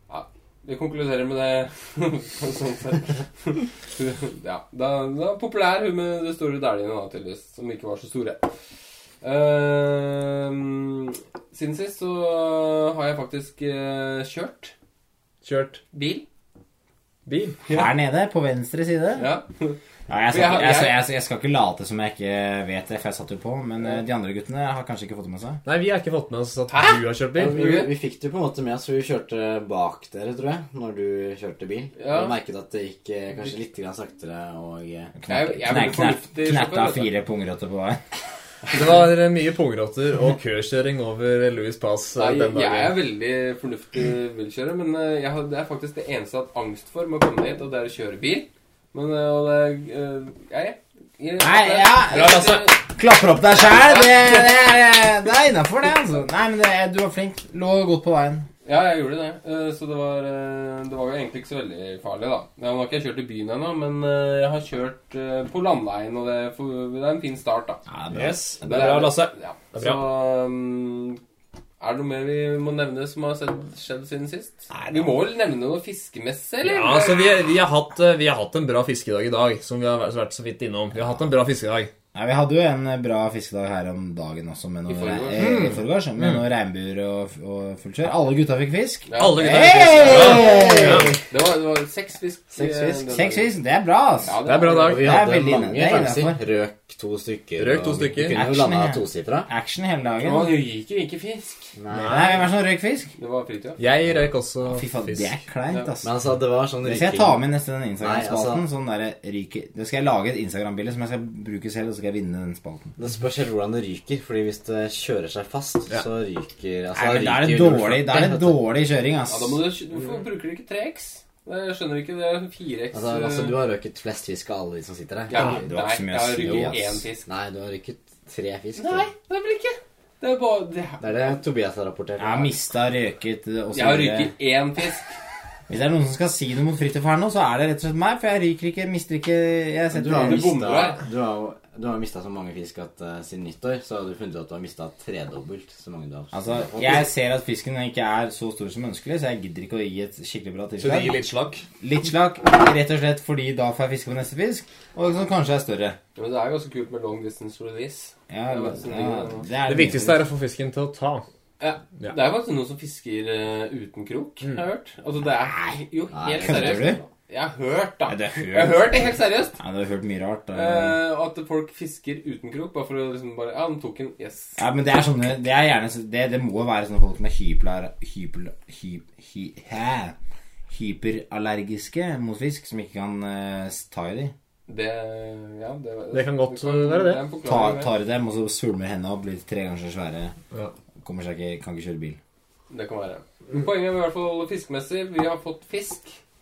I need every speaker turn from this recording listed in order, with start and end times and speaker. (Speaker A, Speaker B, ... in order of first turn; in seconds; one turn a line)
Speaker A: 0.1-8.5
Speaker A: 9.2-14.7
Speaker B: 15.4-15.8
Speaker A: 15.9-16.2
Speaker B: 17.3-17.6
Speaker A: 17.6-17.9
Speaker C: 17.7-19.3
Speaker A: 19.2-19.8
Speaker C: 20.1-25.6
Speaker A: 20.3-21.0
Speaker B: 25.6-27.6
Speaker A: 26.7-27.9
Speaker D: 27.4-35.1
Speaker A: 32.0-32.4
Speaker C: 35.2-38.0
Speaker A: 35.3-37.1
Speaker B: 38.7-43.0
Speaker A: 42.2-52.8
Speaker C: 51.4-58.5
Speaker A: 53.7-54.2
Speaker A: 58.6-67.8
Speaker C: 67.9-68.9
Speaker B: 68.1-70.0
Speaker A: 68.7-71.2
Speaker A: 71.8-77.3
Speaker C: 74.7-75.2
Speaker B: 76.6-81.9
Speaker C: 82.1-91.2
Speaker A: 84.9-85.5
Speaker B: 85.4-86.4
Speaker A: 89.1-93.5
Speaker B: 89.2-91.1
Speaker D: 92.5-93.3
Speaker C: 93.1-94.3
Speaker A: 94.2-95.0
Speaker B: 94.5-95.0
Speaker D: 94.8-99.5
Speaker C: 94.9-96.4
Speaker B: 97.6-98.4
Speaker C: 98.3-100.5
Speaker A: 100.2-101.7
Speaker D: 101.8-102.3
Speaker B: 101.9-102.4
Speaker C: 102.1-103.1
Speaker A: 103.2-103.8
Speaker B: 103.8-105.3
Speaker C: 104.6-106.1
Speaker D: 106.0-107.4
Speaker C: 106.8-113.0
Speaker D: 108.0-108.6
Speaker D: 113.0-118.6
Speaker C: 117.0-119.6
Speaker A: 119.3-123.6
Speaker D: 122.9-125.7
Speaker A: 125.3-127.3
Speaker C: 125.4-127.0
Speaker D: 126.4-129.1
Speaker A: 128.8-131.4
Speaker D: 131.0-132.5
Speaker C: 132.2-134.3
Speaker A: 133.7-135.1
Speaker C: 135.7-140.5
Speaker D: 139.9-147.1
Speaker A: 140.2-141.0
Speaker C: 146.3-151.2
Speaker B: 150.8-151.6
Speaker C: 151.8-156.0
Speaker A: 156.2-159.5
Speaker C: 158.3-160.3
Speaker B: 159.7-161.2
Speaker A: 161.6-169.6
Speaker D: 166.1-167.0
Speaker C: 166.4-167.0
Speaker C: 168.1-171.0
Speaker A: 170.5-174.6
Speaker C: 174.6-180.2
Speaker C: 180.7-184.3
Speaker A: 184.7-187.9
Speaker B: 186.1-187.2
Speaker C: 187.4-190.3
Speaker C: 191.0-192.2
Speaker A: 192.7-196.2